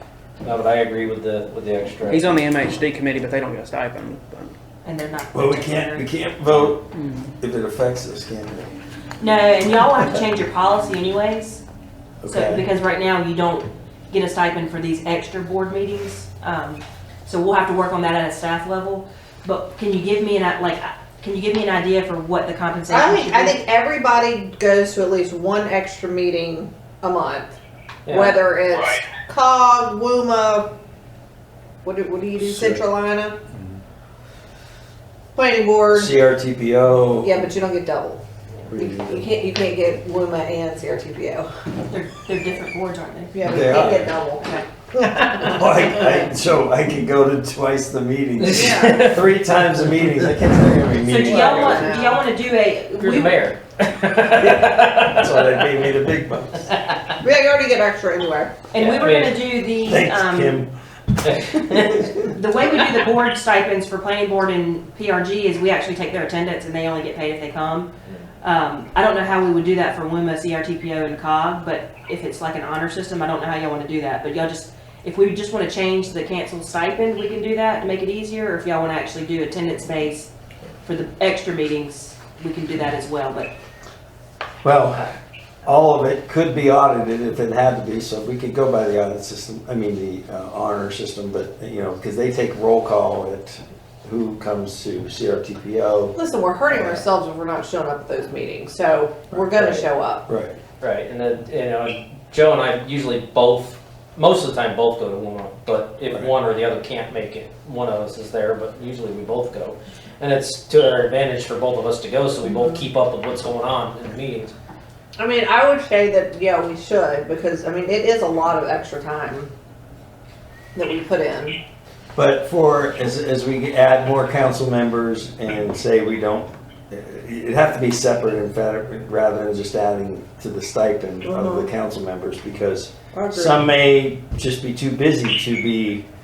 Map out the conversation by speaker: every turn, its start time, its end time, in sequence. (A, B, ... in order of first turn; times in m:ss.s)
0:00.4-0:02.4 A
0:02.1-0:04.5 B
0:04.8-0:06.1 C
0:05.3-0:08.8 D
0:06.9-0:07.3 B
0:09.2-0:11.6 C
0:12.2-0:12.7 D
0:12.3-0:23.6 C
0:22.9-0:27.5 E
0:28.0-0:28.5 A
0:28.1-0:30.7 E
0:31.8-0:33.4 E
0:32.4-0:32.8 D
0:35.3-0:36.1 E
0:35.9-0:37.5 D
0:37.2-0:41.5 E
0:38.7-0:39.3 D
0:41.9-0:43.4 C
0:43.3-0:45.6 E
0:43.4-0:44.1 D
0:44.4-0:44.6 C
0:45.4-0:51.9 D
0:48.4-0:49.3 A
0:48.4-0:49.1 E
0:51.0-0:53.4 C
0:51.1-0:52.2 E
0:53.0-0:55.9 A
0:54.4-0:56.7 D
0:56.7-0:57.1 A
0:57.2-0:58.6 E
0:58.7-1:00.6 C
0:58.8-0:59.4 A
0:59.8-1:00.7 D
1:01.2-1:02.2 A
1:02.2-1:07.9 C
1:08.4-1:20.3 C
1:20.8-1:23.5 C
1:24.6-1:25.1 D
1:25.6-1:36.2 D
1:36.2-1:40.3 E
1:36.7-1:37.0 D
1:39.3-1:39.7 D
1:39.6-1:39.9 A
1:40.3-1:40.6 D
1:40.8-1:54.5 A
1:55.2-1:59.5 E
2:00.8-2:01.6 E
2:02.2-2:16.1 D
2:11.2-2:11.7 E
2:13.1-2:13.6 E